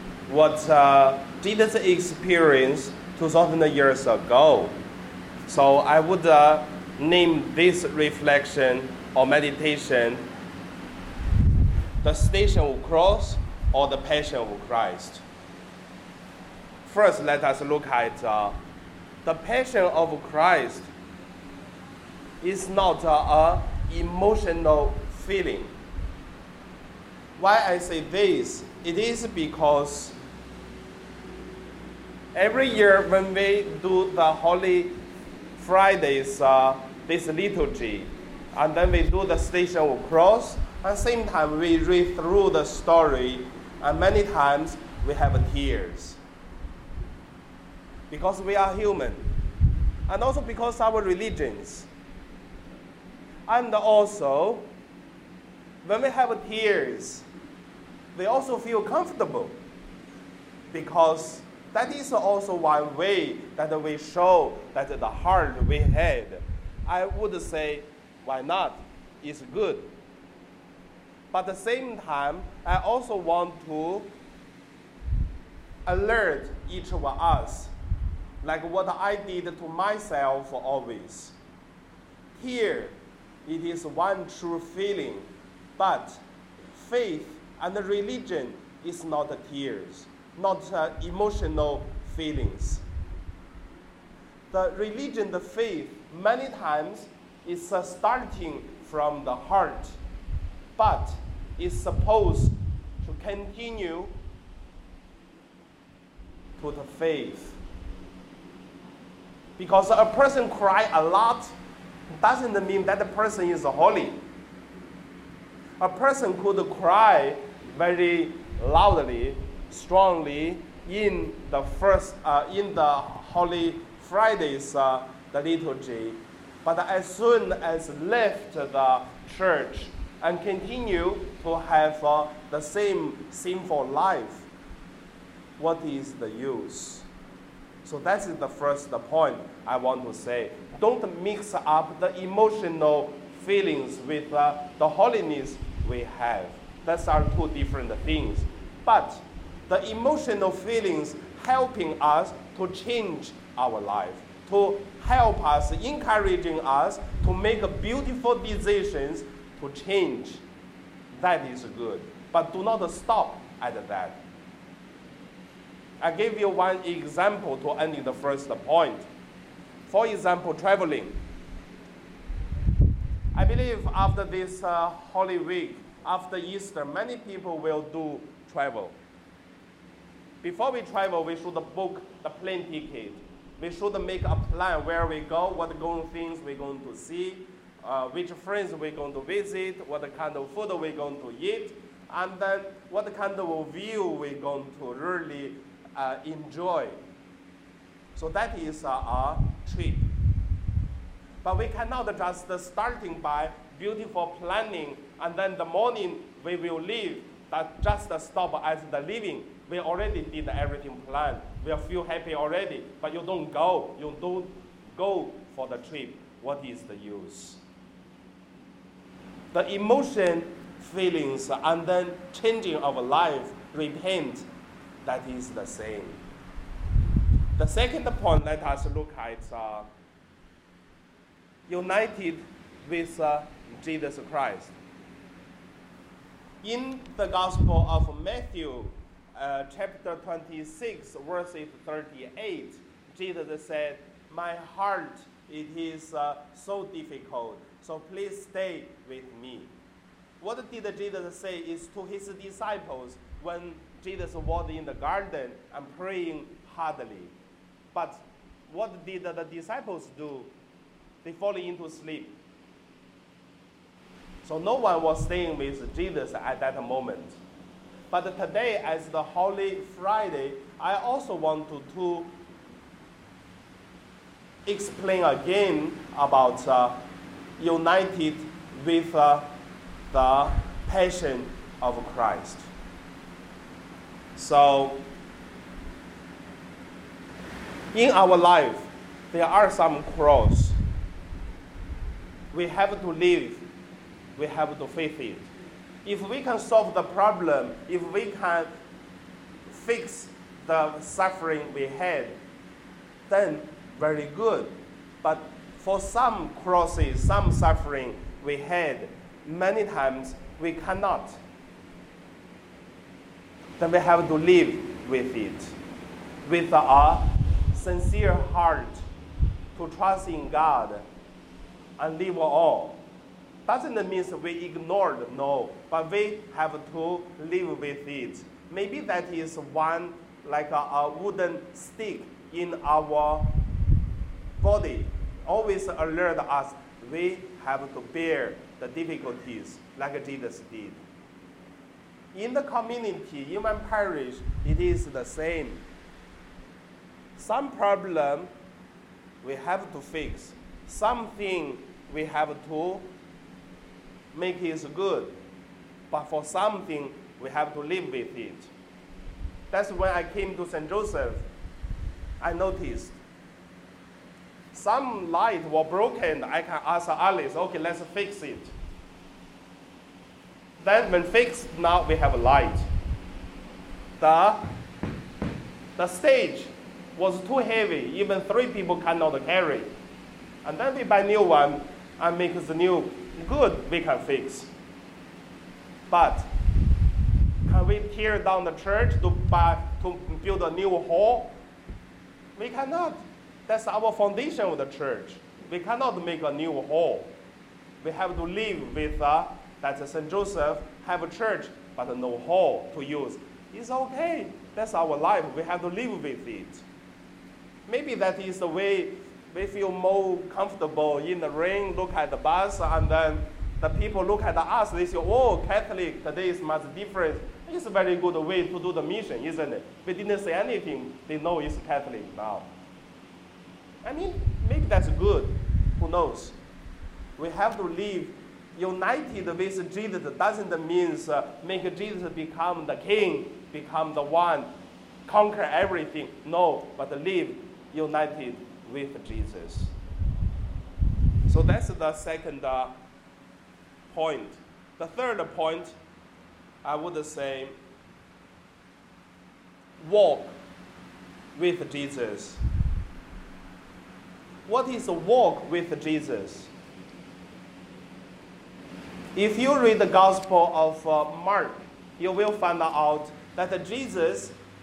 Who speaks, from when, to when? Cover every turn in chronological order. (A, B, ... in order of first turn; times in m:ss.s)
0:00.3-0:04.8 A
0:05.5-0:10.2 A
0:12.0-0:15.2 A
0:16.8-0:18.6 A
0:19.2-0:20.9 A
0:22.4-0:25.7 A
0:27.4-0:30.2 A
0:32.3-0:35.0 A
0:35.6-0:46.2 A
0:48.1-0:49.3 A
0:50.1-0:51.9 A
0:53.5-0:54.7 A
0:55.8-0:57.2 A
0:58.2-0:59.6 A
1:00.7-1:09.9 A
1:11.3-1:14.1 A
1:15.9-1:17.7 A
1:18.4-1:21.4 A
1:22.4-1:32.8 A
1:34.5-1:40.0 A
1:40.8-1:44.2 A
1:46.6-1:47.6 A
1:49.6-1:51.6 A
1:52.1-1:54.2 A
1:55.8-2:14.5 A
2:15.6-2:17.1 A
2:17.8-2:40.4 A
2:41.1-2:44.2 A
2:46.0-2:49.1 A
2:49.9-2:51.2 A
2:53.4-2:59.0 A
3:00.4-3:17.0 A
3:18.2-3:20.1 A
3:21.4-3:37.6 A
3:39.5-3:44.5 A
3:45.0-3:46.2 A
3:47.6-3:49.9 A
3:51.7-3:54.8 A
3:56.6-4:09.7 A
4:10.4-4:17.3 A
4:17.9-4:20.5 A
4:21.2-4:22.4 A
4:24.4-4:27.4 A
4:28.1-4:32.4 A
4:34.7-4:37.0 A
4:37.6-4:39.5 A
4:40.1-4:42.7 A
4:44.4-4:45.1 A
4:47.9-4:50.8 A
4:52.5-4:53.7 A
4:54.4-4:55.5 A
4:56.0-4:58.7 A
4:59.7-5:02.4 A
5:03.3-5:11.4 A
5:13.8-5:15.8 A
5:16.4-5:19.0 A
5:19.8-5:21.0 A
5:22.0-5:23.0 A
5:23.7-5:33.5 A
5:34.6-5:41.0 A
5:42.3-5:45.8 A
5:47.4-5:48.5 A
5:49.4-5:53.1 A
5:54.3-5:55.4 A
5:56.1-5:58.7 A
5:59.7-6:01.5 A
6:02.4-6:03.2 A
6:04.7-6:08.7 A
6:10.8-6:12.9 A
6:14.2-6:14.7 A
6:16.0-6:19.9 A
6:20.6-6:24.7 A
6:26.1-6:26.5 A
6:27.7-6:31.6 A
6:32.6-6:37.4 A
6:38.0-6:46.8 A
6:47.9-7:02.7 A
7:04.0-7:06.6 A
7:07.4-7:14.7 A
7:15.3-7:19.9 A
7:21.5-7:23.0 A
7:24.1-7:26.0 A
7:26.8-7:27.8 A
7:30.0-7:30.6 A
7:31.6-7:32.6 A
7:34.7-7:36.7 A
7:39.4-7:44.6 A